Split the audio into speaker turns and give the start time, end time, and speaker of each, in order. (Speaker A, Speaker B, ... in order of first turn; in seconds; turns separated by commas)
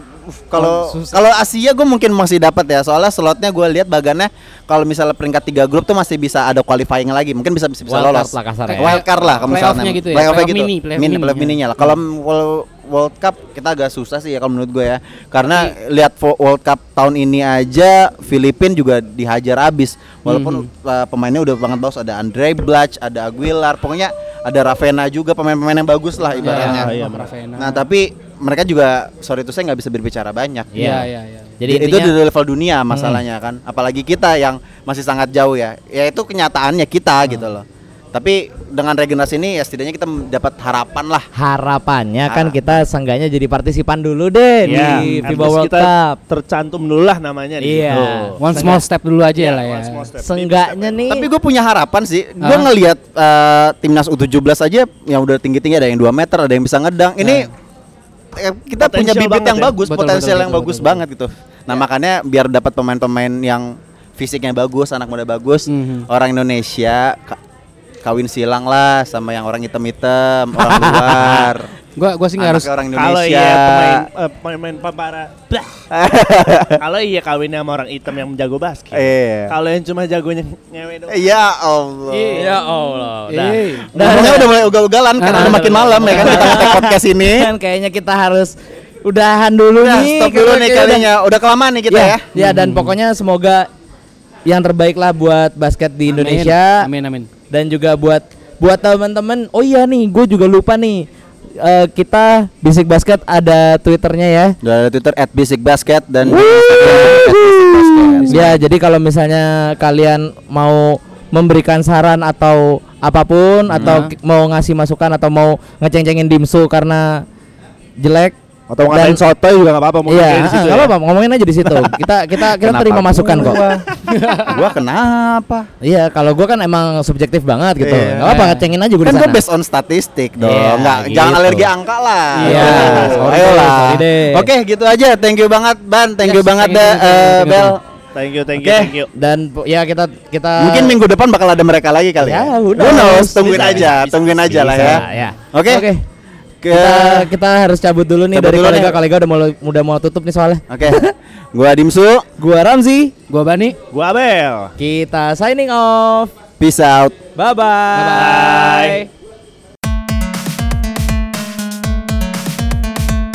Speaker A: 0.2-26.9, Speaker B: 0.6-1.2, Speaker C: 7.9-9.0, Speaker B: 8.7-11.9, Speaker B: 20.2-20.6, Speaker B: 26.3-27.9, Speaker C: 26.4-26.9, Speaker D: 26.6-27.3, Speaker A: 27.6-30.7, Speaker C: 30.7-31.1, Speaker B: 30.8-31.6, Speaker C: 31.6-32.2, Speaker A: 31.7-41.3, Speaker C: 32.9-33.2, Speaker C: 41.3-46.2, Speaker A: 42.3-42.8, Speaker B: 44.6-45.3, Speaker D: 44.6-48.4, Speaker C: 47.6-48.8, Speaker B: 48.4-50.0, Speaker D: 49.4-51.0, Speaker C: 50.2-51.3, Speaker A: 51.1-57.5, Speaker B: 52.4-52.7, Speaker B: 57.2-57.5, Speaker A: 58.3-67.4, Speaker D: 58.8-59.7, Speaker B: 59.8-61.0, Speaker B: 65.7-66.1, Speaker A: 68.0-71.7, Speaker C: 70.5-71.5, Speaker B: 72.0-72.7, Speaker A: 72.4-74.0, Speaker D: 72.9-75.7, Speaker A: 75.9-76.8, Speaker D: 76.8-81.3, Speaker A: 78.9-79.5, Speaker A: 81.1-82.5, Speaker B: 82.1-82.5, Speaker C: 82.3-84.6, Speaker B: 83.3-84.4, Speaker D: 83.3-83.7, Speaker A: 84.0-87.5, Speaker B: 85.2-86.6, Speaker C: 85.2-88.5, Speaker C: 89.0-91.1, Speaker A: 89.8-92.2, Speaker C: 91.9-93.7, Speaker B: 92.3-92.9, Speaker C: 94.5-96.9, Speaker B: 96.1-97.3, Speaker C: 97.5-104.6, Speaker A: 104.6-108.6, Speaker C: 106.2-117.2, Speaker A: 113.7-114.0, Speaker B: 113.8-114.1, Speaker C: 118.0-118.3, Speaker D: 118.7-120.9, Speaker C: 118.9-119.3, Speaker C: 120.0-123.8, Speaker A: 122.6-123.9, Speaker B: 124.0-124.5, Speaker A: 124.4-125.7, Speaker C: 125.8-129.4, Speaker A: 127.8-128.3, Speaker B: 128.2-128.7, Speaker A: 129.0-137.8, Speaker C: 130.4-131.7, Speaker B: 132.3-133.3, Speaker C: 132.4-134.5, Speaker D: 132.4-133.4, Speaker B: 136.2-137.7, Speaker D: 138.1-139.1, Speaker C: 138.6-141.0, Speaker A: 140.6-145.8, Speaker C: 142.2-143.9, Speaker D: 142.8-145.0, Speaker C: 144.5-146.0, Speaker A: 146.6-147.3, Speaker C: 146.7-151.1, Speaker A: 148.3-148.9, Speaker A: 150.7-152.2, Speaker C: 152.4-153.1, Speaker B: 153.3-153.8, Speaker D: 153.9-154.7, Speaker C: 154.8-156.3, Speaker A: 156.6-157.2, Speaker C: 157.3-159.1, Speaker B: 157.9-158.6, Speaker D: 158.2-159.0